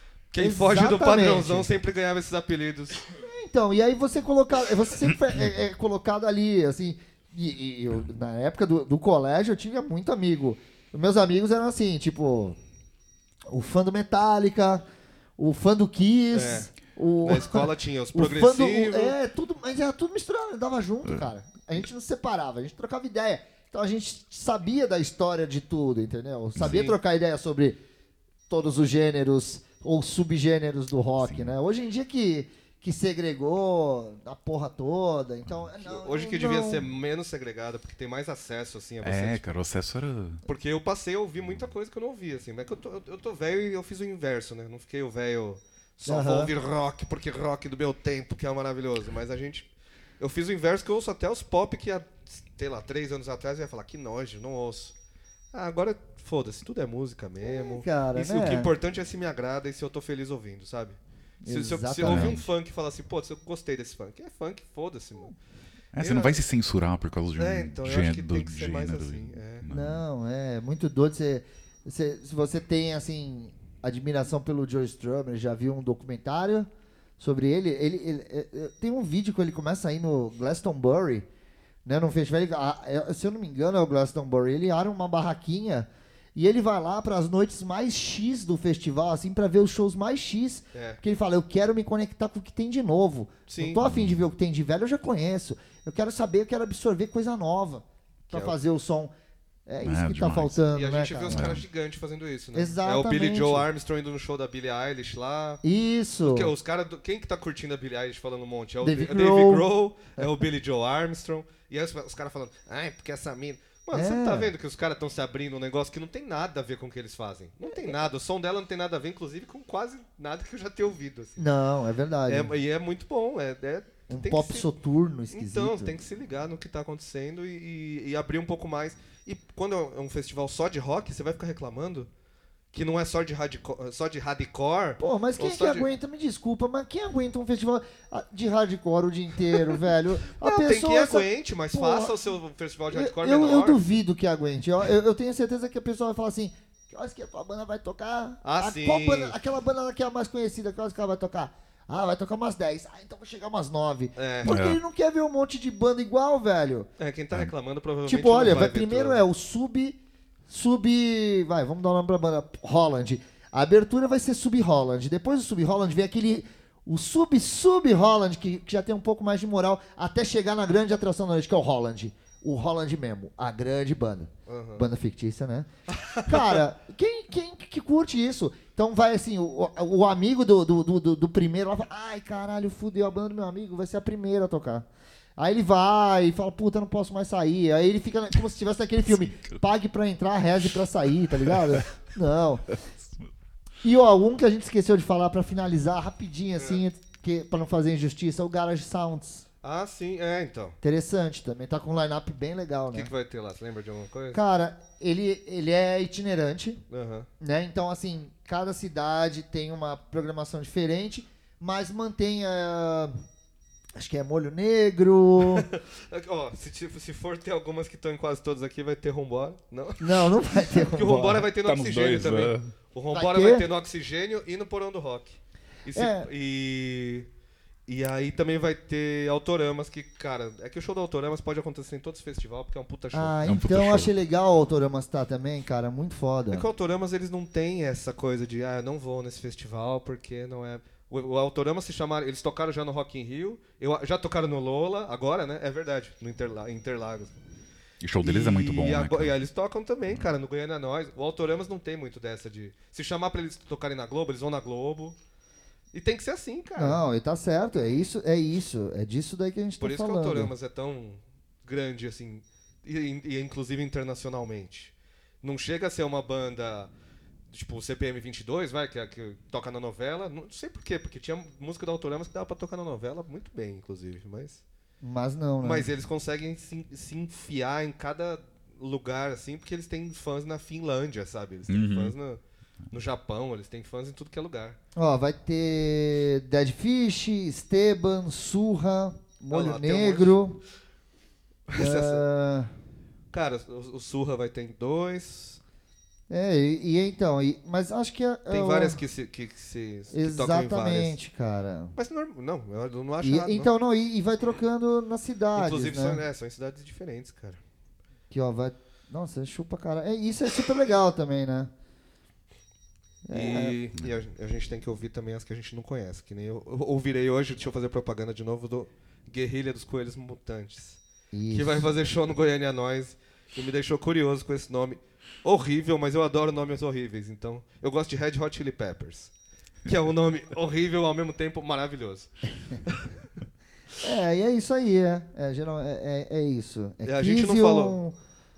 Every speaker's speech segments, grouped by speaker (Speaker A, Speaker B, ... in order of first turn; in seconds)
Speaker A: 0.3-3.0, 16.3-16.7, 17.2-19.2, 26.6-27.0, 35.8-39.5, 40.5-49.7, 50.2-55.0, 55.5-65.3, 66.0-66.4, 67.4-69.7, 90.7-91.0, 93.5-93.8, 98.3-98.6, 100.7-105.6, 106.2-121.4, 122.3-124.7, 125.3-132.1, 132.7-135.9, 140.4-143.8, 148.4-149.4, 154.2-154.6, 157.0-159.2, 174.5-174.9, 175.9-176.6, 196.6-196.8, 199.6-200.8, 202.9-204.4, 206.9-207.3, 215.5-227.3, 227.9-233.4, 236.5-247.4, 248.2-255.2, 255.9-257.0, 259.8-266.9, 267.5-274.6, 275.6-284.8, 289.5-290.4, 291.7-292.2, 293.3-295.6, 298.5-301.2, 301.9-303.7, 305.6-307.6, 313.3-329.3, 329.9-333.2, 337.0-338.0
Speaker B: 0.4-1.7, 3.2-12.6, 13.5-14.9, 15.4-27.8, 28.5-36.8, 46.0-46.5, 57.4-58.7, 61.4-62.4, 69.7-81.3, 81.8-99.1, 99.7-101.5, 102.5-103.7, 105.6-106.5, 108.8-109.7, 113.9-114.5, 117.7-118.0, 121.4-122.5, 124.1-125.9, 135.0-142.2, 142.9-156.9, 158.1-175.7, 176.2-184.9, 185.4-192.7, 193.8-199.5, 200.8-203.1, 204.3-206.8, 207.4-213.2, 214.0-215.7, 220.0-221.5, 223.1-223.7, 225.9-226.3, 233.1-236.7, 256.8-260.5, 275.0-275.9, 284.9-290.6, 291.8-292.7, 296.3-299.0, 300.1-301.9, 303.2-306.2, 308.3-311.7, 313.3-313.8, 321.3-321.9, 334.0-338.1
Speaker C: 31.2-31.5, 39.0-40.4, 62.1-62.4, 65.9-70.0, 93.8-94.2, 99.8-100.6, 101.3-101.6, 154.5-154.8, 189.2-189.6, 191.5-191.8, 221.6-222.7, 233.4-234.1, 248.0-249.4, 281.7-282.1